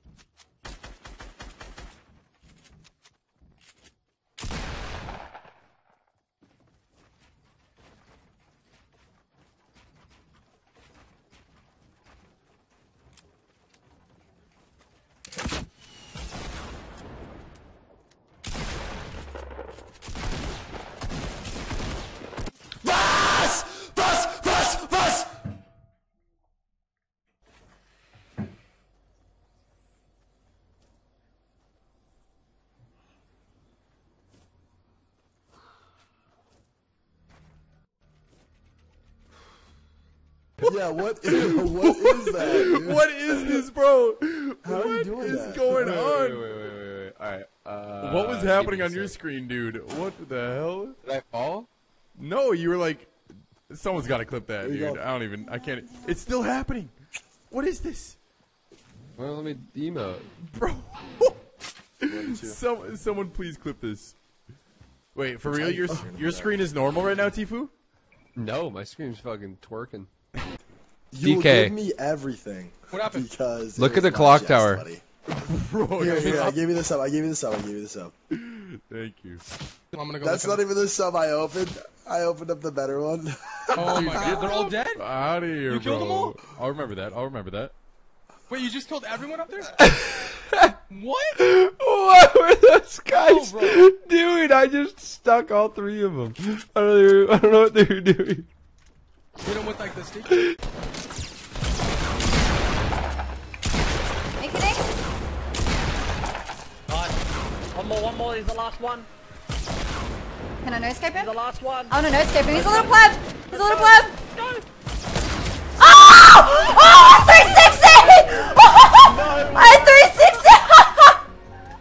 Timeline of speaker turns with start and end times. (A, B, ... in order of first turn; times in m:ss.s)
0:40.6-0:43.6 A
0:41.3-0:46.5 B
0:44.6-0:46.0 A
0:45.5-0:49.2 C
0:48.0-0:51.0 B
0:51.0-0:51.7 C
0:52.2-0:53.1 B
0:53.7-0:56.9 B
0:54.6-0:55.0 A
0:57.5-0:58.2 B
0:59.2-1:00.3 C
1:00.5-1:01.4 B
1:02.0-1:04.2 B
1:02.1-1:02.6 A
1:05.2-1:07.7 B
1:05.4-1:06.6 A
1:08.4-1:10.1 C
1:11.1-1:15.0 A
1:11.2-1:11.8 C
1:12.9-1:13.3 D
1:13.8-1:14.9 C
1:15.3-1:16.6 B
1:16.0-1:18.1 A
1:18.4-1:19.4 B
1:19.9-1:20.6 D
1:20.2-1:24.5 A
1:23.8-1:25.0 D
1:24.0-1:27.7 B
1:25.6-1:26.4 D
1:28.5-1:29.7 D
1:29.8-1:30.7 C
1:30.9-1:31.4 D
1:31.4-1:38.5 C
1:33.2-1:33.8 D
1:39.4-1:40.4 D
1:44.4-1:44.8 E
1:47.8-1:49.1 F
1:50.6-1:51.3 E
1:51.2-1:51.9 F
1:51.9-1:54.2 E
1:52.6-1:52.9 F
1:53.5-1:54.6 F
1:55.8-2:01.2 E
1:59.1-1:59.6 F